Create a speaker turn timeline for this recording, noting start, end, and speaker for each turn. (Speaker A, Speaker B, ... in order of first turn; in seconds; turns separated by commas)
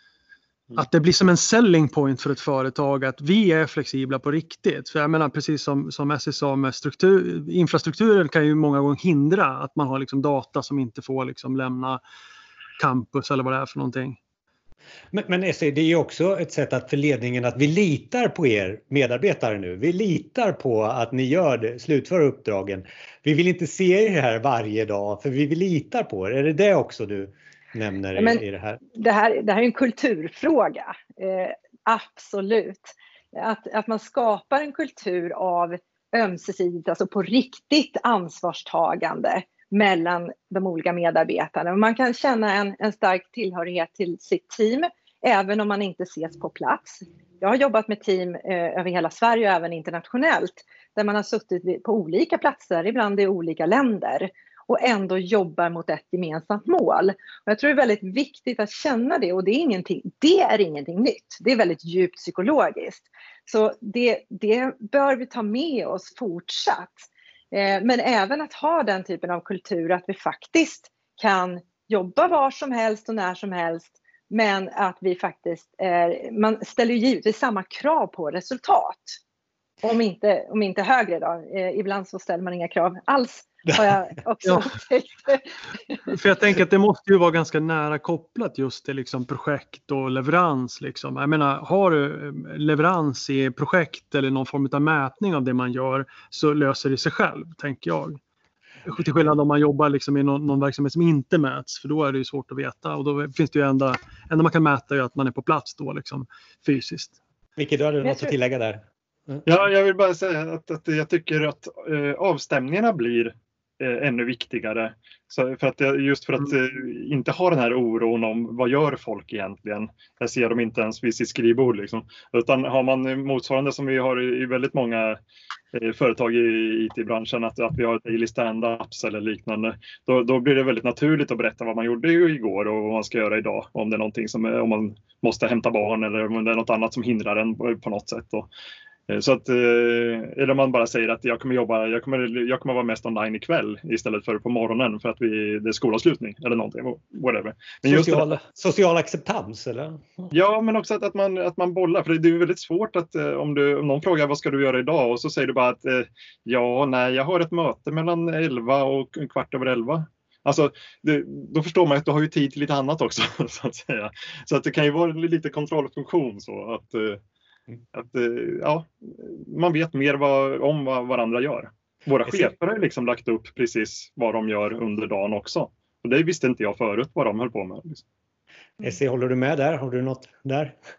Speaker A: 0.7-12.0, Speaker A: 12.8-14.2, Speaker B: 15.1-27.2, Speaker B: 27.8-28.1, Speaker C: 28.1-79.2, Speaker C: 79.8-86.0, Speaker A: 86.1-98.2, Speaker A: 98.8-107.2, Speaker B: 107.6-108.8, Speaker C: 108.0-108.3, Speaker D: 109.4-125.2, Speaker D: 125.7-138.5, Speaker D: 139.1-148.3, Speaker B: 147.8-150.0, Speaker D: 150.3-167.2, Speaker D: 167.9-178.0, Speaker B: 179.0-180.5